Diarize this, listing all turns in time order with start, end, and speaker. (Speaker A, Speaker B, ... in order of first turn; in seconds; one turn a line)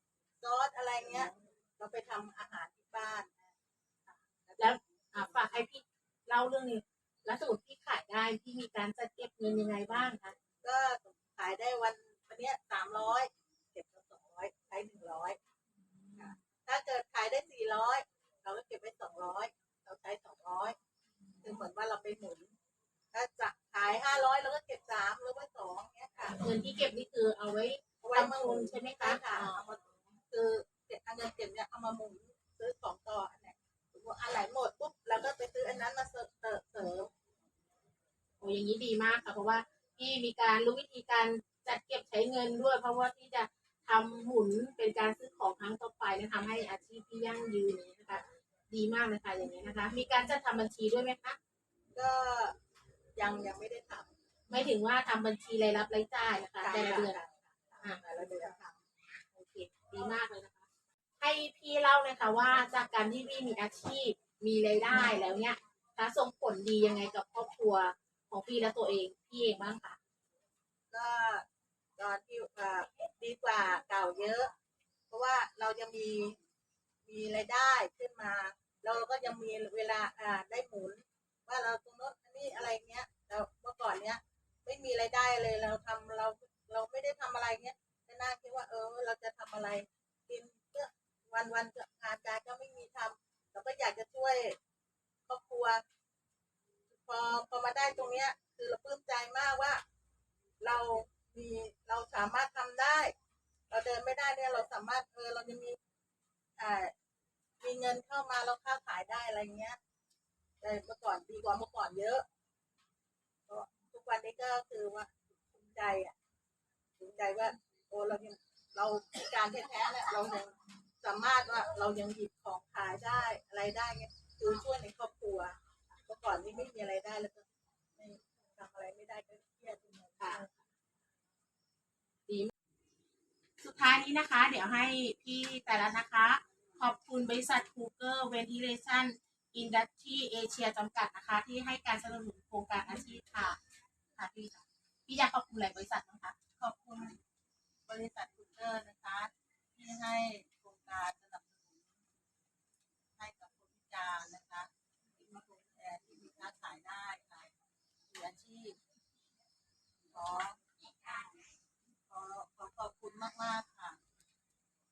Speaker A: 0.4-3.5
Speaker A: 4.4-4.8
Speaker B: 4.6-10.3
Speaker A: 10.6-15.4
Speaker A: 16.2-20.8
Speaker A: 21.4-22.5
Speaker A: 23.1-26.4
Speaker B: 26.3-30.0
Speaker A: 28.0-29.6
Speaker A: 30.3-37.1
Speaker B: 38.4-51.4
Speaker A: 51.9-52.6
Speaker A: 53.2-54.1
Speaker B: 54.5-57.2
Speaker A: 56.6-58.8
Speaker B: 59.3-60.6
Speaker B: 61.2-70.0
Speaker A: 70.9-71.5
Speaker A: 72.0-74.5
Speaker A: 75.1-76.4
Speaker A: 77.0-94.6
Speaker A: 95.3-95.8
Speaker A: 96.9-99.8
Speaker A: 100.6-103.1
Speaker A: 103.7-105.8
Speaker A: 106.6-106.9
Speaker A: 107.6-109.8
Speaker A: 110.6-112.2
Speaker A: 113.5-116.1
Speaker A: 117.0-127.4
Speaker A: 128.0-130.5
Speaker B: 130.2-130.5
Speaker B: 133.6-143.6
Speaker B: 144.2-146.4
Speaker A: 146.6-147.2
Speaker A: 147.9-151.9
Speaker A: 153.2-157.5
Speaker A: 158.1-158.8
Speaker A: 160.1-161.2
Speaker A: 162.1-164.0